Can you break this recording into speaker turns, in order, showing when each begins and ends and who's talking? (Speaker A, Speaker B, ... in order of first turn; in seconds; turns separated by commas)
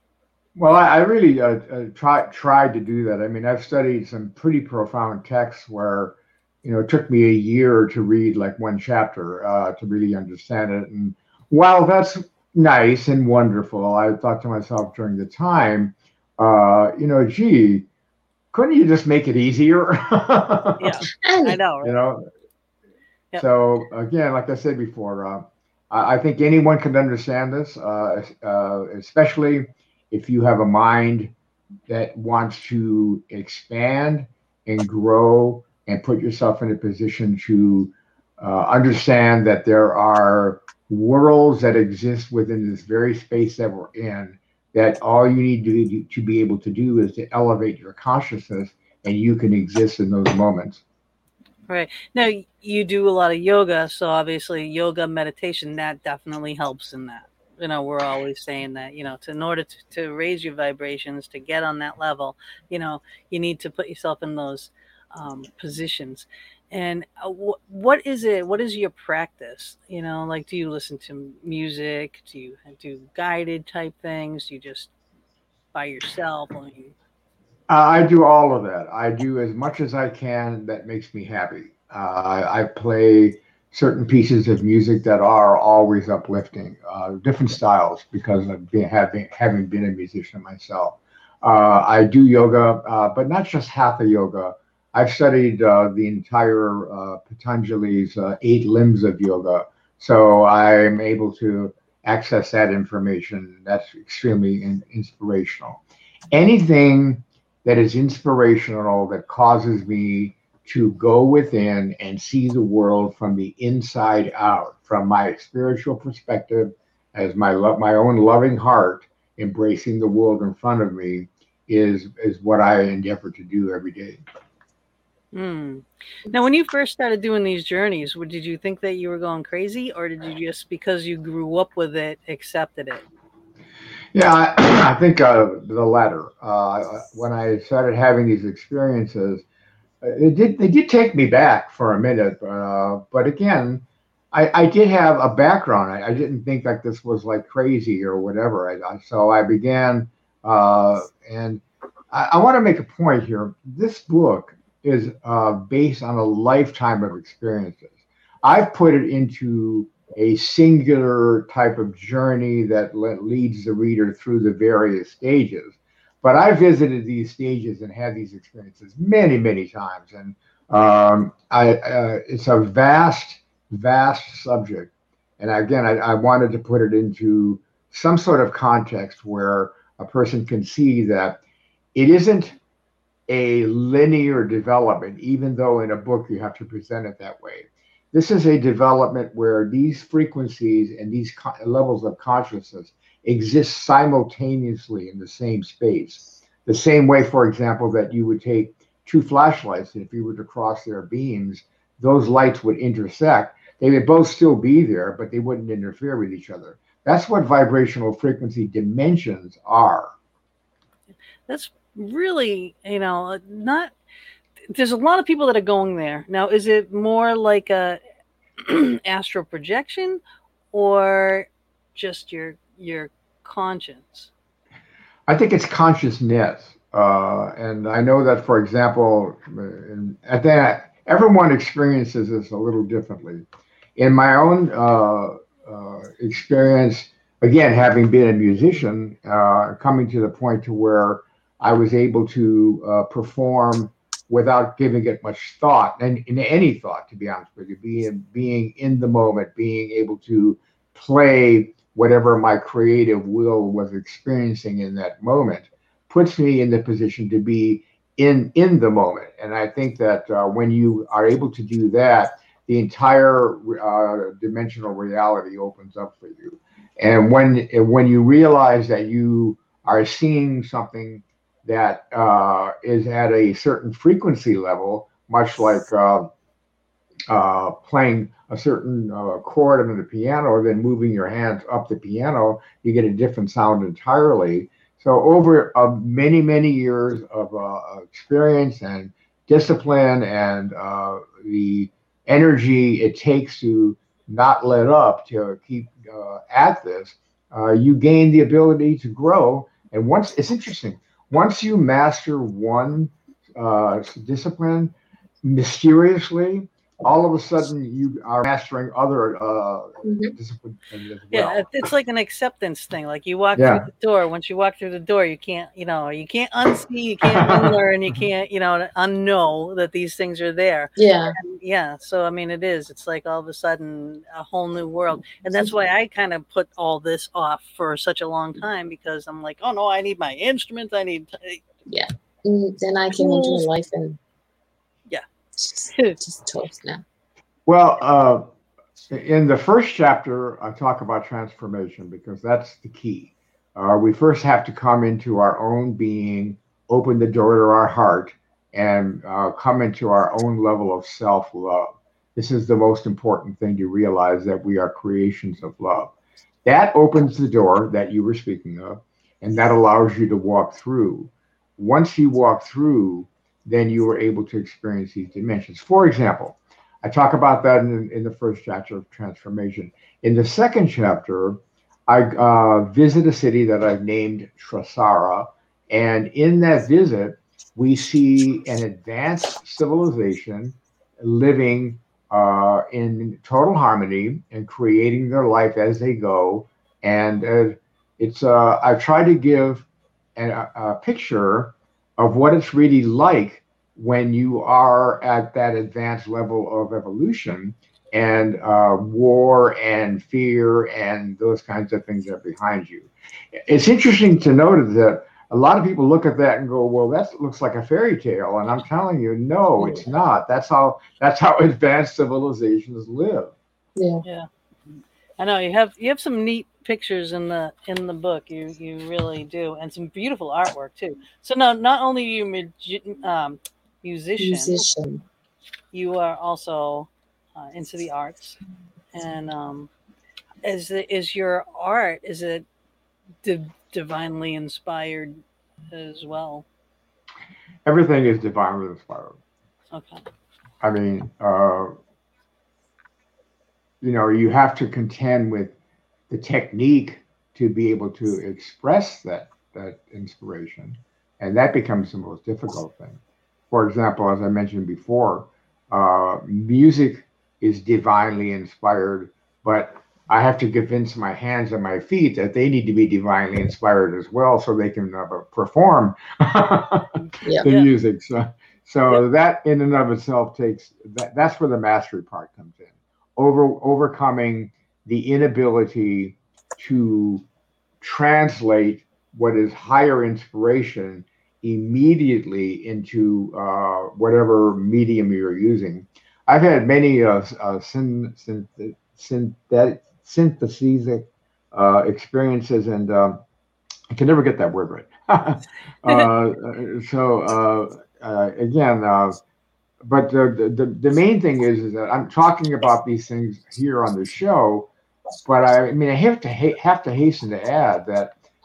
Speaker A: 0.6-17.9, Speaker A: 18.5-21.0, Speaker B: 20.8-21.9, Speaker C: 21.2-21.6, Speaker A: 21.8-22.3, Speaker A: 23.4-31.3, Speaker A: 31.9-50.8, Speaker B: 51.7-74.9, Speaker B: 75.7-77.0, Speaker A: 77.7-124.2, Speaker B: 125.3-133.0, Speaker A: 134.1-139.4, Speaker A: 140.0-181.4, Speaker A: 181.9-182.6, Speaker A: 183.3-210.1, Speaker B: 211.5-213.9, Speaker B: 214.7-218.0, Speaker B: 218.6-220.2, Speaker B: 220.7-224.3, Speaker A: 225.3-233.5, Speaker A: 234.0-276.3, Speaker A: 277.3-311.7, Speaker C: 310.0-310.3, Speaker B: 311.3-331.6, Speaker A: 313.6-313.9, Speaker A: 317.2-317.7, Speaker C: 321.0-321.4, Speaker C: 331.9-334.2, Speaker B: 333.2-333.7, Speaker C: 335.6-337.0, Speaker B: 335.9-336.2, Speaker A: 337.7-338.5, Speaker A: 339.1-356.1, Speaker A: 356.6-413.5, Speaker C: 414.0-414.2, Speaker B: 415.4-424.9, Speaker C: 424.4-425.2, Speaker B: 425.9-428.6, Speaker B: 429.1-429.9, Speaker B: 430.6-432.7, Speaker B: 433.4-435.4, Speaker B: 435.9-436.6, Speaker A: 437.9-439.4, Speaker B: 439.9-440.2, Speaker A: 440.8-441.9, Speaker A: 444.0-445.7, Speaker A: 446.3-453.2, Speaker A: 453.7-477.4, Speaker B: 467.6-467.9, Speaker A: 478.0-493.4, Speaker A: 494.1-499.4, Speaker A: 500.0-504.9, Speaker A: 505.4-508.3